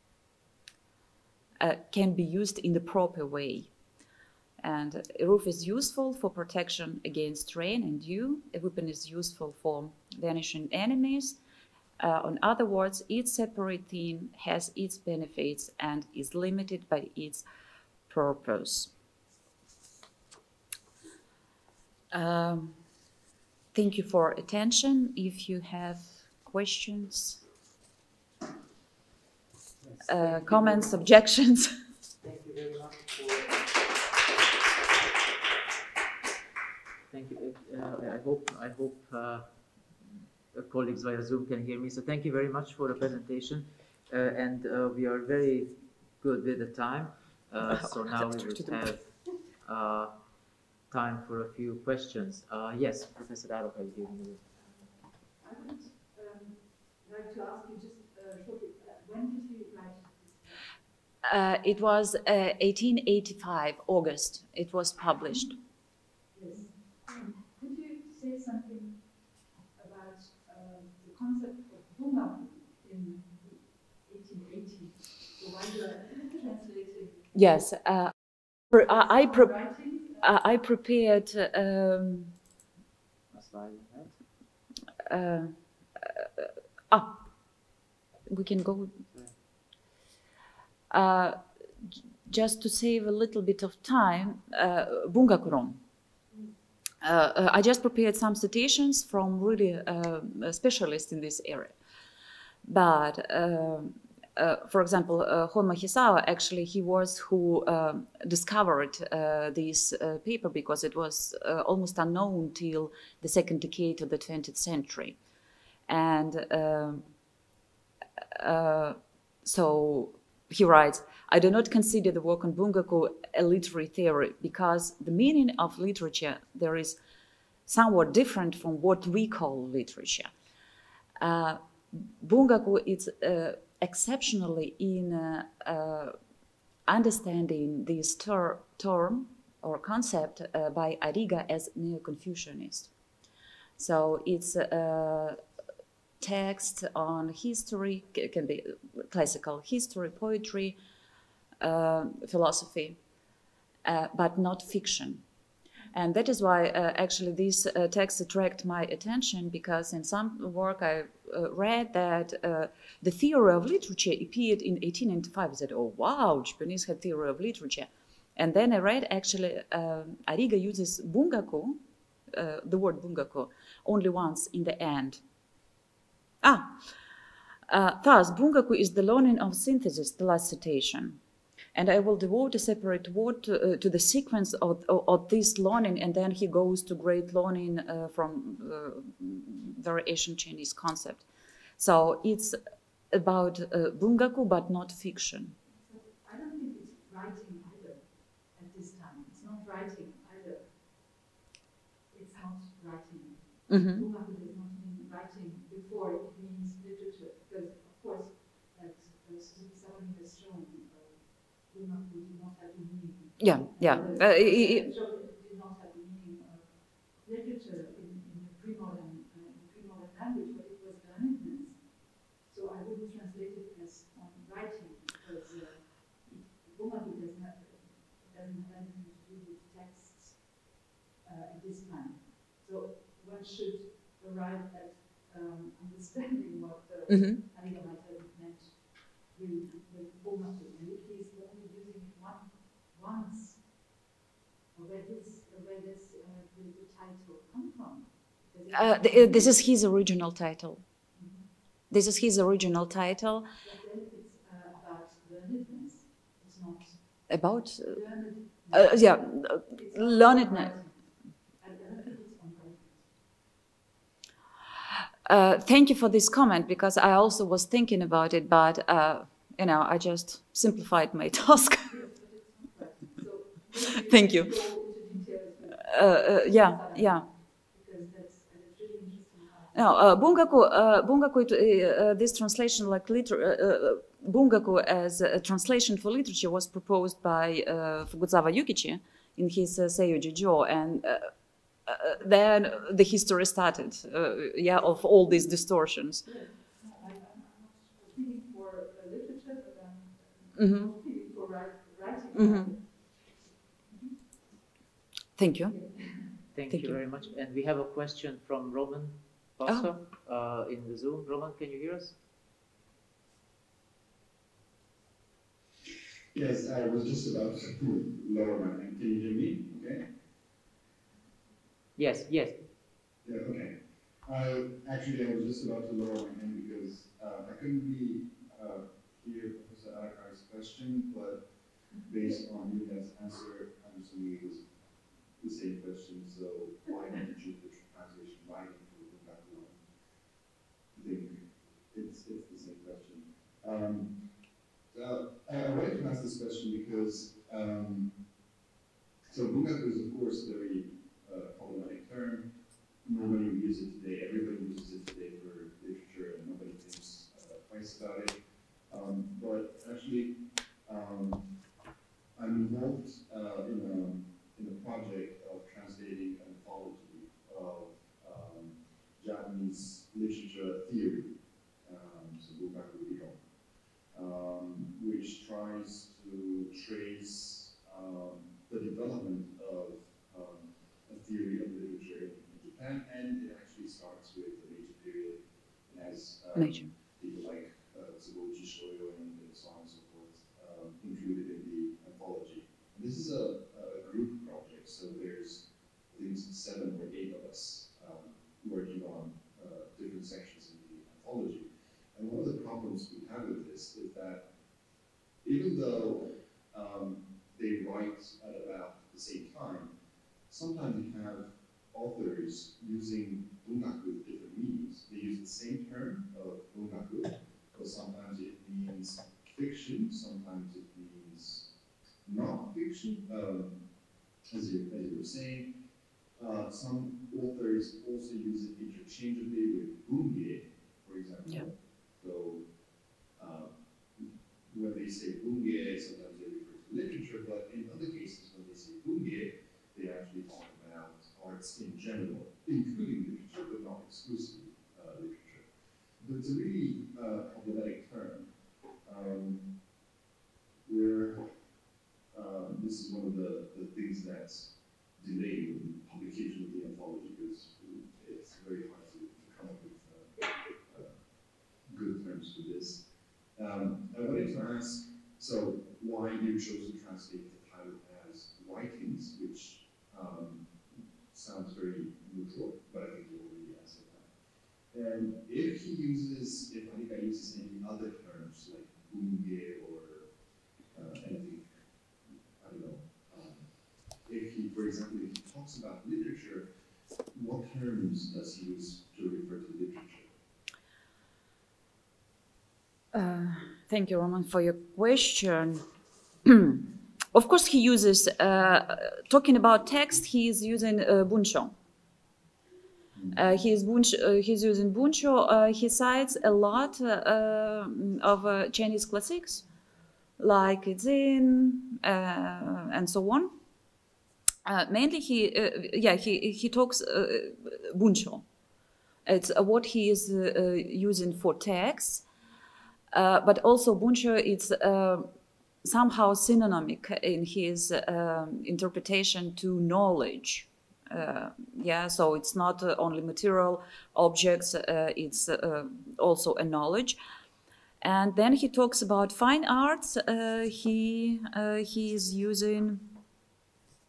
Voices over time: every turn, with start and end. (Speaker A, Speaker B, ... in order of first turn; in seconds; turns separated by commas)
Speaker A: 1.6-3.7, Speaker A: 4.6-11.4, Speaker A: 12.0-17.4, Speaker A: 18.1-18.9, Speaker A: 22.1-22.8, Speaker A: 23.7-27.4, Speaker B: 29.8-31.0, Speaker A: 30.1-31.7, Speaker B: 32.2-33.6, Speaker B: 37.1-39.8, Speaker B: 40.5-50.1, Speaker A: 47.8-48.8, Speaker B: 50.9-54.5, Speaker C: 54.6-60.7, Speaker A: 61.2-65.6, Speaker C: 66.3-69.1, Speaker C: 69.7-77.3, Speaker A: 77.3-82.3, Speaker C: 79.3-80.2, Speaker B: 83.3-84.2, Speaker A: 85.1-87.3, Speaker A: 88.3-89.0, Speaker B: 89.1-89.4, Speaker A: 90.9-91.4, Speaker A: 92.3-95.8, Speaker A: 97.0-101.8, Speaker A: 102.6-115.2, Speaker A: 115.9-117.1, Speaker A: 118.2-127.0, Speaker A: 127.7-130.3, Speaker A: 131.2-136.2, Speaker A: 136.9-142.9, Speaker A: 143.8-145.4, Speaker A: 146.2-150.8, Speaker A: 151.6-153.0, Speaker A: 153.8-155.2, Speaker A: 155.9-171.8, Speaker A: 172.3-175.2, Speaker A: 176.4-176.8, Speaker A: 177.7-181.2, Speaker A: 181.8-191.3, Speaker A: 191.8-192.6, Speaker A: 193.1-195.6, Speaker C: 195.7-201.3, Speaker C: 202.1-230.6, Speaker A: 203.7-204.1, Speaker A: 213.4-214.9, Speaker C: 231.2-243.9, Speaker A: 237.1-237.4, Speaker C: 244.7-249.6, Speaker A: 248.7-250.8, Speaker C: 251.1-251.5, Speaker A: 251.9-253.5, Speaker C: 253.6-257.2, Speaker A: 257.3-258.0, Speaker C: 257.9-261.1, Speaker A: 258.7-260.7, Speaker C: 261.6-263.2, Speaker A: 265.3-271.9, Speaker C: 271.9-280.0, Speaker A: 274.1-274.6, Speaker A: 275.8-277.3, Speaker A: 279.8-291.3, Speaker A: 291.9-296.2, Speaker C: 296.2-304.1, Speaker A: 300.6-300.9, Speaker A: 302.3-302.8, Speaker A: 305.4-305.8, Speaker C: 305.7-306.4, Speaker B: 306.5-312.2, Speaker A: 306.7-307.0, Speaker D: 316.3-320.1, Speaker B: 322.0-322.6, Speaker D: 323.2-323.8, Speaker D: 324.3-331.4, Speaker D: 332.1-334.6, Speaker D: 335.4-339.8, Speaker D: 340.9-344.2, Speaker D: 344.9-348.1, Speaker D: 349.3-352.5, Speaker D: 353.1-358.4, Speaker D: 358.9-361.5, Speaker D: 362.4-373.4, Speaker D: 374.1-404.5, Speaker A: 386.6-386.9, Speaker D: 405.4-409.9, Speaker D: 410.5-421.7, Speaker D: 422.2-423.8, Speaker D: 424.5-425.7, Speaker D: 426.4-432.6, Speaker D: 433.4-445.6, Speaker D: 446.2-448.5, Speaker D: 449.1-449.7, Speaker D: 450.9-451.5, Speaker D: 452.3-460.3, Speaker D: 460.9-461.1, Speaker D: 461.9-463.0, Speaker D: 463.6-470.7, Speaker D: 471.3-474.3, Speaker D: 474.9-480.3, Speaker D: 480.9-481.6, Speaker D: 482.6-483.6, Speaker D: 484.3-486.7, Speaker D: 487.3-490.3, Speaker A: 493.1-495.8, Speaker A: 496.4-501.8, Speaker D: 503.1-503.4, Speaker A: 503.3-509.6, Speaker A: 510.4-513.6, Speaker A: 514.6-518.5, Speaker A: 519.3-522.2, Speaker A: 523.1-525.3, Speaker A: 525.8-537.2, Speaker A: 538.0-543.1